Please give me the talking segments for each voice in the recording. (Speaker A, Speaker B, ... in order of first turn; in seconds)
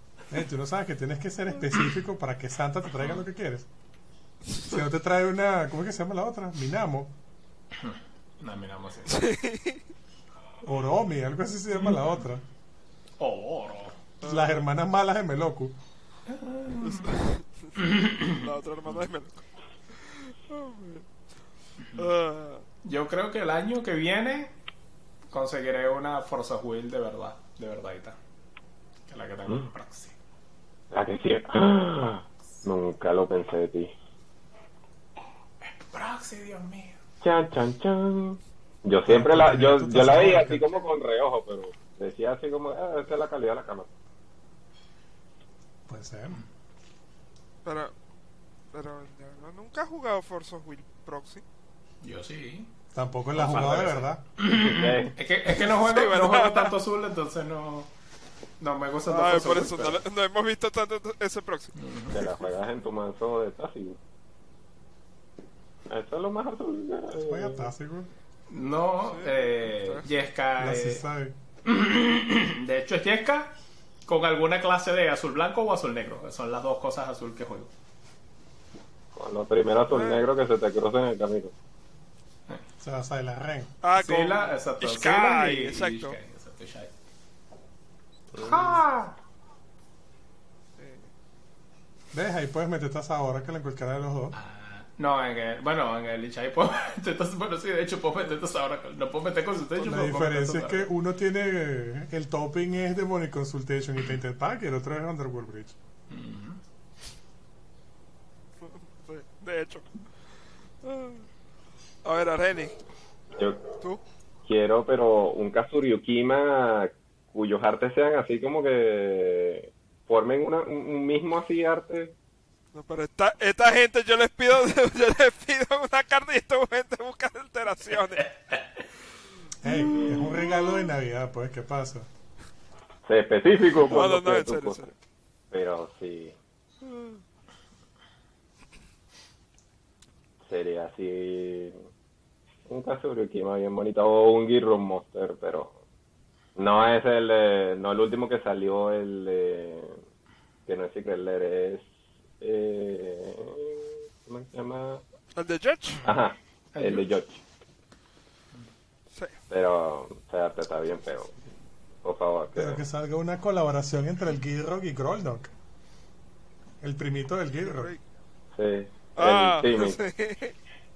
Speaker A: 0.3-3.7, 4.6-7.1, 10.6-12.4, 14.2-15.7, 39.0-40.8, 45.9-46.4, 52.9-54.2, 67.2-68.1, 70.6-71.3, 82.8-83.7, 92.1-94.3, 99.8-105.8, 129.6-132.1, 162.5-165.5, 166.8-167.9
Speaker B: 7.8-9.1, 13.2-14.0, 16.3-17.1, 17.8-18.4, 22.8-24.5, 25.3-28.2, 29.1-30.1, 35.6-37.0, 52.0-52.7, 53.3-57.9, 58.6-60.0, 61.8-62.3, 68.5-71.0, 71.6-73.5, 74.0-77.7, 84.0-86.9, 88.4-89.1, 94.3-100.9, 106.1-106.6, 129.7-130.2, 156.7-157.1
Speaker C: 9.1-9.8, 14.2-14.6, 16.8-19.4, 20.0-21.0, 21.9-22.6, 47.6-47.9, 48.7-51.4, 55.5-56.7, 59.1-61.7, 69.0-70.1, 79.9-80.2, 83.8-86.2, 90.8-91.1, 108.6-109.8, 110.8-111.2, 112.0-112.8, 122.7-128.3, 133.8-134.9, 136.8-137.2, 155.3-156.0, 167.6-168.0, 169.2-170.5
Speaker D: 30.9-33.9, 37.2-43.9, 54.5-55.1, 62.1-64.0, 65.9-67.7, 79.1-81.5, 88.3-88.8, 113.4-113.6, 114.4-122.1, 133.0-134.9, 135.5-136.3, 140.4-141.8, 142.7-145.8, 146.6-150.0, 150.7-151.9, 152.4-155.0, 156.0-157.4, 159.5-161.3, 162.0-162.8, 168.5-170.0